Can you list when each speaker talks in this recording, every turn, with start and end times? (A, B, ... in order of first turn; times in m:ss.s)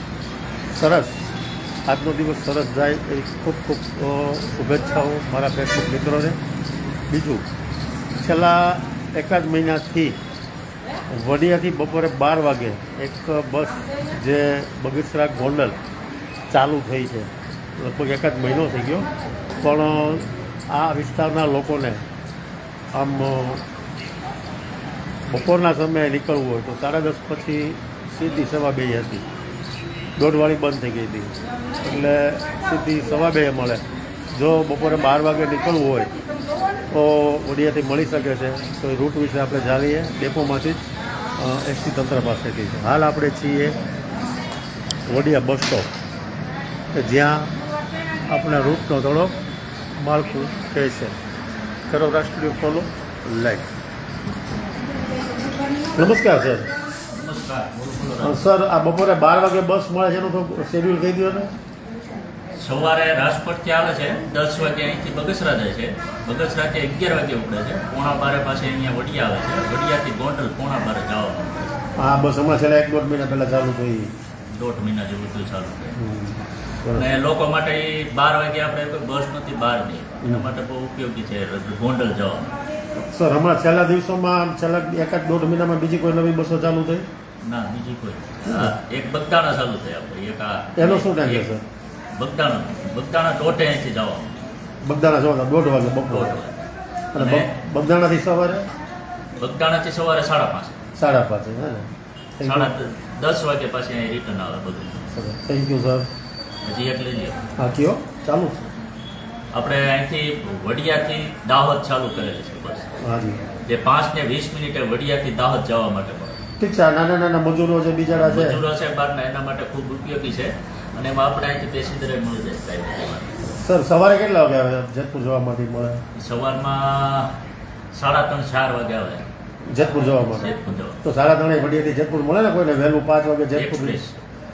0:00.7-0:01.3 A
0:01.9-0:06.4 A
0:07.1-0:07.5 A
0:08.2-0:10.2 A
0:11.1-0:15.8 A
0:16.5-0:19.1 A
0:19.6-0:22.0 A
0:22.9-0:23.6 A
0:25.3-0:29.2 A
0:30.2-0:36.1 A
0:36.9-0:43.8 A
0:45.1-0:45.9 A
0:46.9-0:47.5 A
0:48.3-0:49.3 A
0:50.0-0:51.2 A
0:51.9-0:53.7 A
0:55.9-0:56.7 A
0:57.1-0:58.4 B
0:58.2-1:01.5 A
1:02.6-1:11.8 B
1:12.0-1:14.1 A
1:14.5-1:16.0 B
1:16.0-1:17.1 A
1:16.9-1:22.5 B
1:20.2-1:20.5 A
1:23.0-1:27.0 A
1:27.4-1:31.5 B
1:28.4-1:28.7 A
1:30.8-1:31.6 A
1:32.2-1:34.4 B
1:34.8-1:36.3 A
1:36.1-1:37.5 B
1:37.1-1:38.7 A
1:39.4-1:40.8 B
1:41.0-1:42.7 A
1:42.4-1:45.0 B
1:45.1-1:46.1 A
1:46.6-1:47.5 B
1:47.6-1:48.6 A
1:49.5-1:52.9 B
1:53.0-1:53.4 A
1:53.7-1:56.4 B
1:56.6-1:58.6 A
1:58.1-2:03.4 B
2:03.6-2:06.0 A
2:06.1-2:07.3 B
2:07.9-2:09.2 B
2:09.7-2:10.5 A
2:10.2-2:11.0 B
2:11.0-2:14.0 A
2:13.5-2:14.2 B